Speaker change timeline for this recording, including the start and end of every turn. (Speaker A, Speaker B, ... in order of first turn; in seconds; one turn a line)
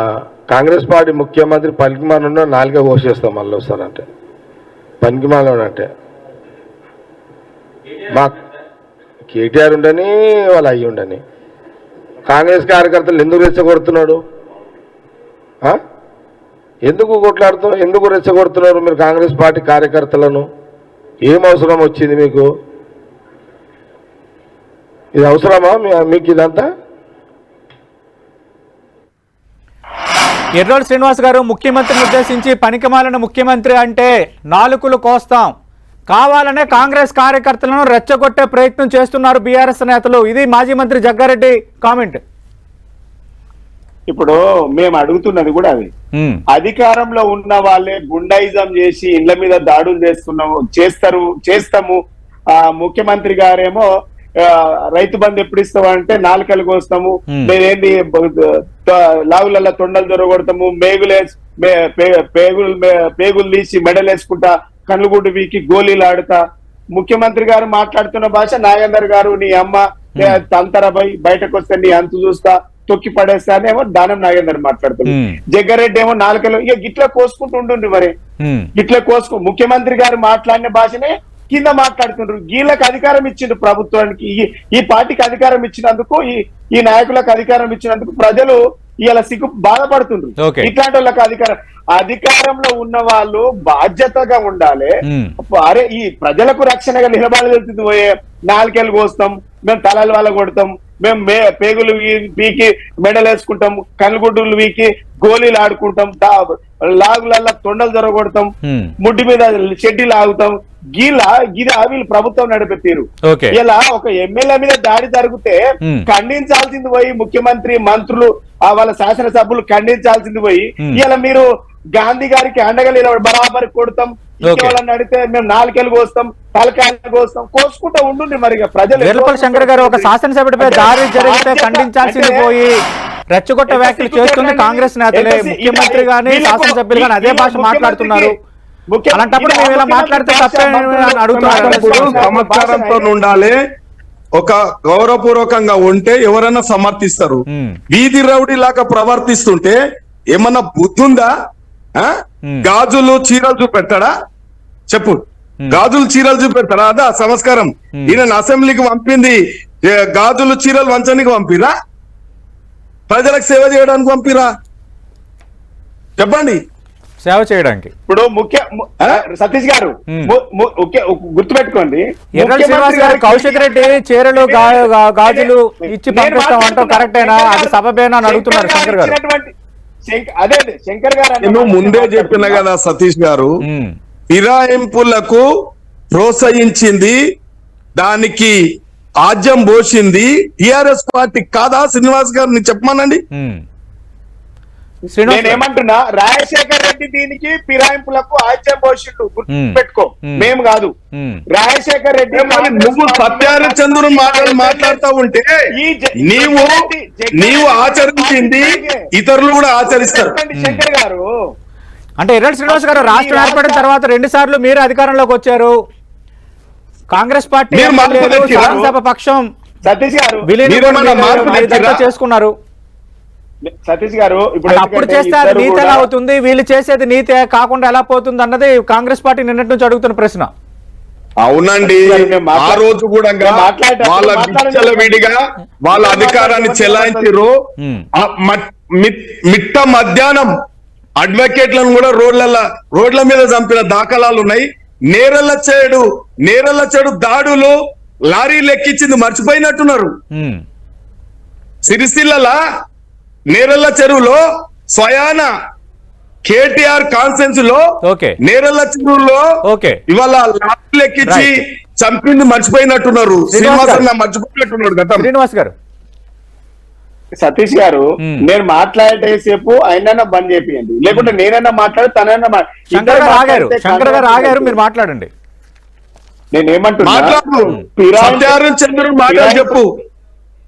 Speaker A: 0.5-4.0
Speaker A: 5.0-5.9
Speaker A: 8.1-8.3
Speaker A: 9.3-11.2
Speaker A: 12.3-14.2
Speaker A: 16.9-20.5
Speaker A: 21.2-22.5
Speaker A: 25.1-26.7
Speaker B: 30.6-35.5
Speaker B: 36.1-42.2
Speaker C: 44.1-45.9
Speaker B: 46.1-46.4
Speaker C: 46.5-52.0
Speaker C: 52.5-53.9
Speaker C: 54.4-66.4
Speaker C: 66.9-78.1
Speaker B: 70.2-70.4
Speaker B: 75.1-75.4
Speaker B: 78.4-78.7
Speaker C: 78.8-132.4
Speaker B: 90.4-90.7
Speaker B: 95.0-95.3
Speaker B: 108.6-108.9
Speaker B: 113.2-113.5
Speaker B: 124.5-124.8
Speaker B: 129.0-132.8
Speaker B: 133.3-138.3
Speaker C: 133.7-138.3
Speaker C: 138.9-143.1
Speaker B: 139.1-142.2
Speaker D: 141.4-143.6
Speaker D: 144.3-149.8
Speaker B: 147.5-147.8
Speaker D: 150.3-151.3
Speaker D: 151.9-154.1
Speaker D: 154.9-161.7
Speaker D: 163.1-164.5
Speaker D: 166.2-166.6
Speaker B: 167.2-167.9
Speaker C: 168.1-179.5
Speaker B: 172.4-179.1
Speaker C: 180.1-182.6
Speaker D: 181.4-183.6
Speaker B: 183.6-183.9
Speaker D: 184.3-185.5
Speaker D: 186.1-187.2
Speaker D: 188.0-188.6
Speaker D: 189.2-193.2
Speaker B: 193.3-193.6
Speaker B: 195.1-195.6
Speaker C: 195.3-200.9
Speaker B: 199.5-200.5
Speaker B: 201.1-201.4
Speaker C: 201.5-205.0
Speaker D: 202.3-205.5
Speaker C: 205.7-209.1
Speaker D: 206.2-206.8
Speaker D: 207.3-210.3
Speaker C: 209.8-211.2
Speaker B: 210.6-210.8
Speaker B: 212.2-215.8
Speaker C: 212.7-213.8
Speaker B: 217.1-219.4
Speaker D: 217.7-218.7
Speaker C: 218.1-218.9
Speaker C: 219.8-221.9
Speaker B: 220.4-222.5
Speaker D: 220.6-222.0
Speaker C: 223.7-226.1
Speaker B: 224.7-230.5
Speaker D: 231.4-237.5
Speaker C: 231.8-232.8
Speaker C: 233.4-235.3
Speaker C: 235.9-237.3
Speaker B: 237.8-238.1
Speaker D: 238.2-240.5
Speaker D: 241.2-247.8
Speaker D: 248.3-250.1
Speaker B: 250.3-250.6
Speaker D: 251.8-252.6
Speaker D: 253.5-255.5
Speaker D: 256.4-257.8
Speaker B: 258.0-258.4
Speaker D: 258.4-259.4
Speaker B: 259.6-260.0
Speaker D: 260.1-265.3
Speaker B: 261.2-261.5
Speaker B: 263.5-264.1
Speaker B: 265.2-265.7
Speaker C: 267.4-274.8
Speaker B: 268.2-268.4
Speaker B: 272.9-275.3
Speaker C: 276.5-277.4
Speaker D: 277.0-279.9
Speaker C: 277.9-278.6
Speaker C: 279.3-279.8